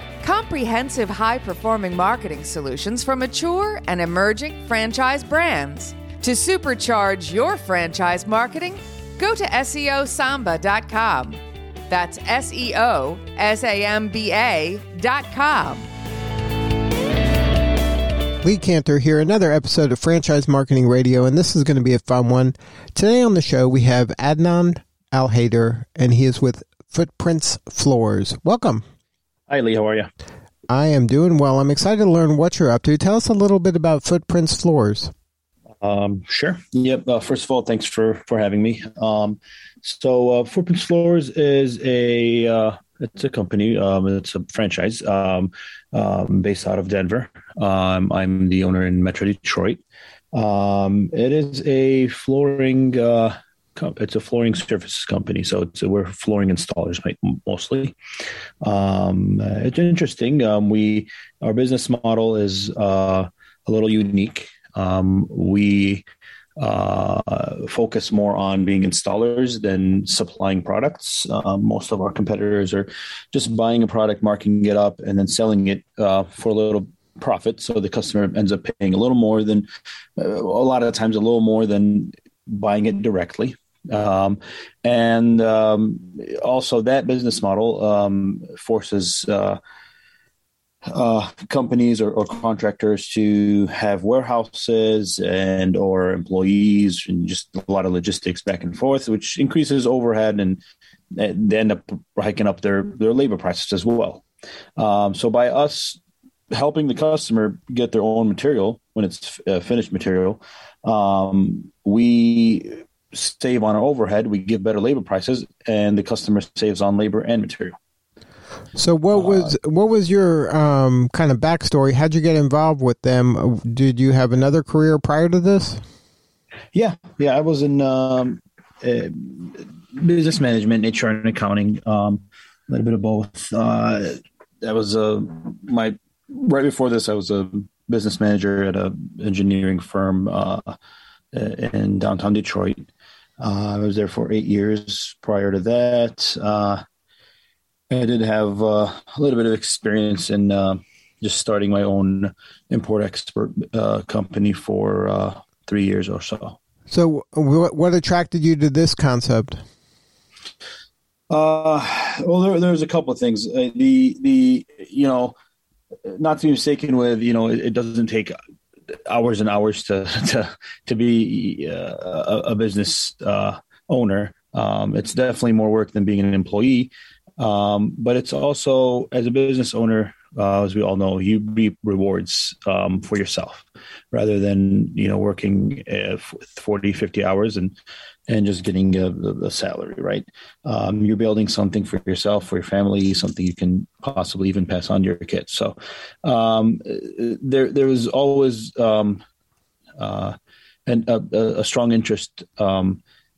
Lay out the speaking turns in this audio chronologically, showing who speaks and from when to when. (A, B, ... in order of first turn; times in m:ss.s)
0:00.2-0:15.9 A
0:18.4-0:28.8 B
0:29.5-0:30.1 C
0:30.7-0:35.1 B
0:35.8-0:58.0 C
0:58.6-1:06.0 C
1:06.6-1:29.6 C
1:30.8-1:40.6 C
1:41.1-1:44.2 C
1:44.8-1:46.0 C
1:46.5-1:57.8 C
1:58.7-2:05.8 B
1:59.1-1:59.5 C
2:06.7-2:20.8 C
2:21.3-2:22.9 C
2:23.4-2:26.8 C
2:27.9-2:36.6 C
2:36.9-2:39.6 B
2:41.3-2:45.3 C
2:46.0-2:48.4 C
2:48.9-3:07.8 C
3:08.3-3:19.2 C
3:20.0-3:23.0 C